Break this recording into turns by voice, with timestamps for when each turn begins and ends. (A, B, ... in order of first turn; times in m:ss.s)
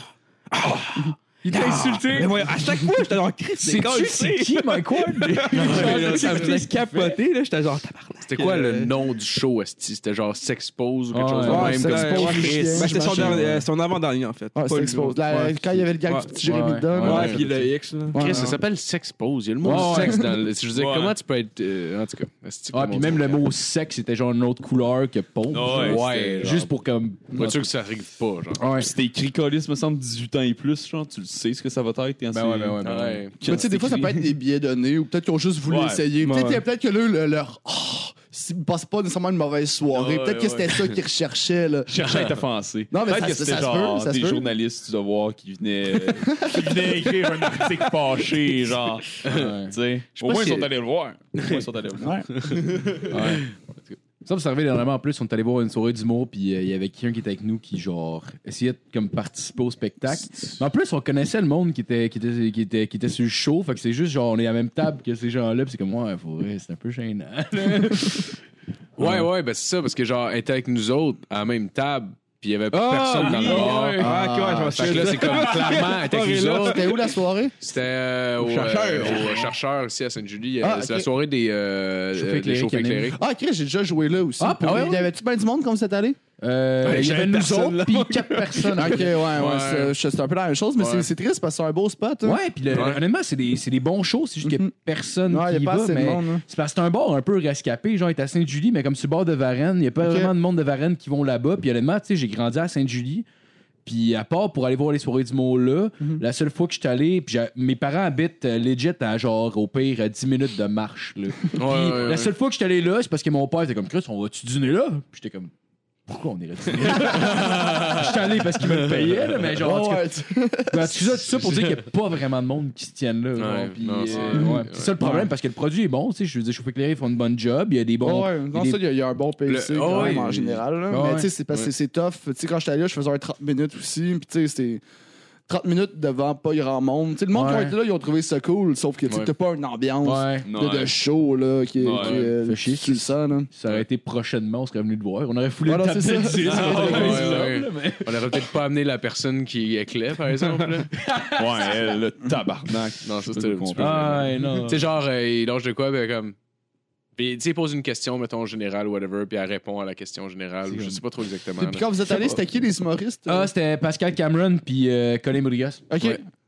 0:00.5-0:08.9 A
0:01.4-0:02.5 B
0:03.6-0:07.2 B
0:05.6-0:06.6 C
0:08.2-0:13.0 C
0:11.1-0:12.0 B
0:11.4-0:16.3 A
0:11.6-0:13.5 D
0:13.1-0:13.6 B
0:14.5-0:17.4 D
0:16.4-0:17.7 B
0:17.0-0:18.5 A
0:17.0-0:17.4 C
0:18.1-0:18.6 D
0:18.1-0:23.4 C
0:19.6-0:20.2 B
0:19.7-0:20.3 D
0:20.7-0:21.2 E
0:22.7-0:27.7 B
0:25.5-0:26.1 E
0:25.7-0:26.7 C
0:27.4-0:28.6 C
0:28.6-0:28.9 B
0:28.8-0:32.8 E
0:32.3-0:33.3 B
0:32.8-0:33.4 C
0:33.4-0:34.2 E
0:33.4-0:42.0 D
0:35.7-0:36.0 E
0:36.2-0:36.6 A
0:39.9-0:41.0 C
0:41.9-0:53.0 E
0:42.9-0:44.5 D
0:46.3-0:47.1 D
0:49.2-0:49.5 C
0:49.3-0:49.7 B
0:50.2-0:50.7 C
0:52.0-0:52.3 D
0:53.1-0:53.5 B
0:54.2-1:08.3 B
1:09.0-1:14.1 C
1:09.0-1:09.3 B
1:12.7-1:14.2 B
1:13.0-1:17.1 A
1:14.0-1:15.2 D
1:14.7-1:16.9 C
1:16.6-1:17.6 D
1:17.6-1:23.2 C
1:18.4-1:19.5 A
1:20.6-1:21.1 D
1:22.1-1:23.2 B
1:23.2-1:26.2 D
1:24.4-1:25.1 B
1:26.4-1:29.1 B
1:28.7-1:32.4 D
1:28.9-1:30.0 C
1:30.8-1:31.1 C
1:32.2-1:43.2 B
1:32.7-1:33.0 C
1:34.4-1:34.7 D
1:35.3-1:36.4 D
1:40.0-1:40.3 D
1:43.8-1:55.5 B
1:51.6-1:52.3 C
1:56.1-2:00.1 B
1:57.0-1:58.0 C
1:59.5-2:01.2 D
2:00.7-2:08.8 B
2:03.4-2:04.9 C
2:04.1-2:05.3 D
2:08.0-2:14.8 D
2:09.5-2:10.6 C
2:09.8-2:10.3 B
2:10.9-2:11.3 B
2:15.5-2:23.5 D
2:17.3-2:17.8 B
2:20.0-2:20.4 B
2:20.4-2:21.0 E
2:21.8-2:22.3 E
2:22.0-2:28.4 B
2:25.6-2:27.3 D
2:26.4-2:27.5 E
2:26.5-2:30.9 C
2:31.1-2:31.4 B
2:31.3-2:34.6 E
2:33.0-2:36.4 C
2:33.8-2:34.8 B
2:37.2-2:42.2 C
2:40.7-2:41.0 B
2:41.6-2:43.5 D
2:43.3-2:45.9 B
2:45.9-2:46.2 D